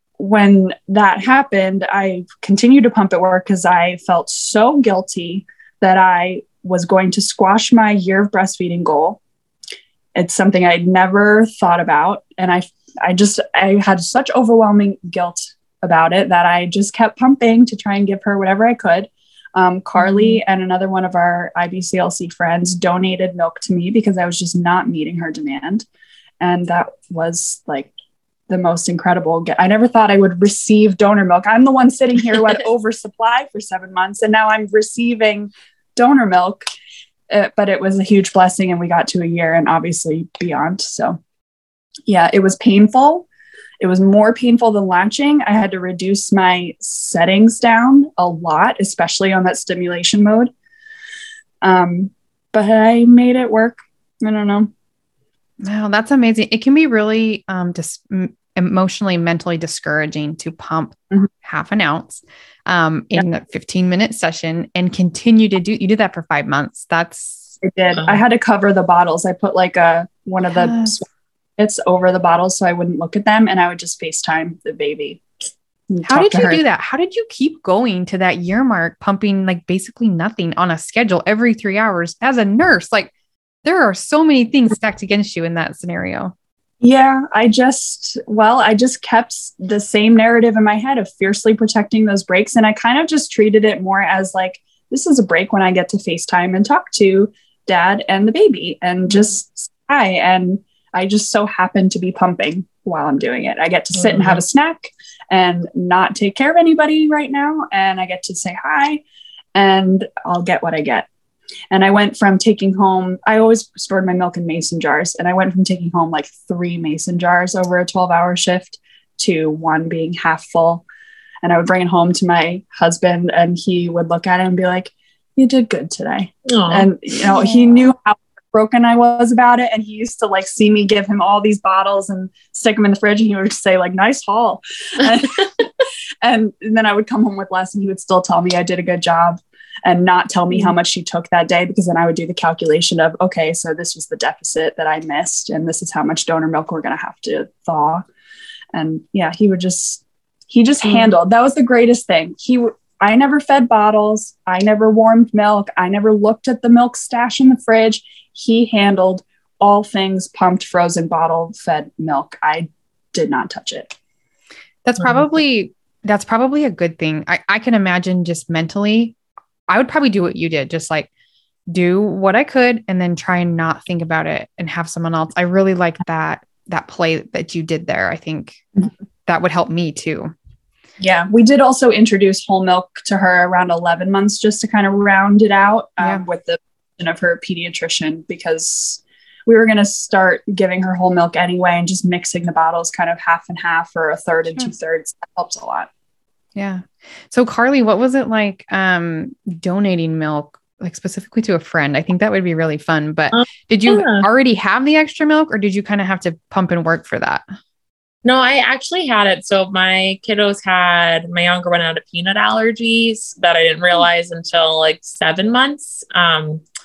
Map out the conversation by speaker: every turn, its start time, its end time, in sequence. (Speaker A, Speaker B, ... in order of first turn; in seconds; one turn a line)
Speaker A: 0.2-9.2
Speaker A: 10.2-25.9
Speaker A: 26.4-27.9
Speaker A: 28.5-36.6
Speaker A: 37.3-41.2
Speaker A: 42.1-43.3
Speaker A: 43.8-50.5
Speaker A: 51.6-54.7
Speaker B: 55.6-67.6
Speaker A: 67.6-71.1
Speaker C: 67.9-68.2
Speaker B: 70.5-71.0
Speaker A: 71.6-75.2
Speaker A: 75.9-76.6
Speaker B: 76.0-83.1
Speaker B: 83.6-86.3
Speaker A: 86.8-109.0
Speaker C: 104.0-104.4
Speaker A: 109.5-111.1
Speaker A: 111.7-120.9
Speaker A: 121.4-135.7
Speaker C: 126.5-126.9
Speaker A: 136.2-148.1
Speaker A: 148.7-163.9
Speaker B: 164.8-169.2
Speaker B: 169.7-171.1
Speaker B: 171.7-180.3
Speaker A: 181.0-195.9
Speaker B: 196.6-207.4
Speaker C: 203.3-204.2
Speaker C: 208.2-216.6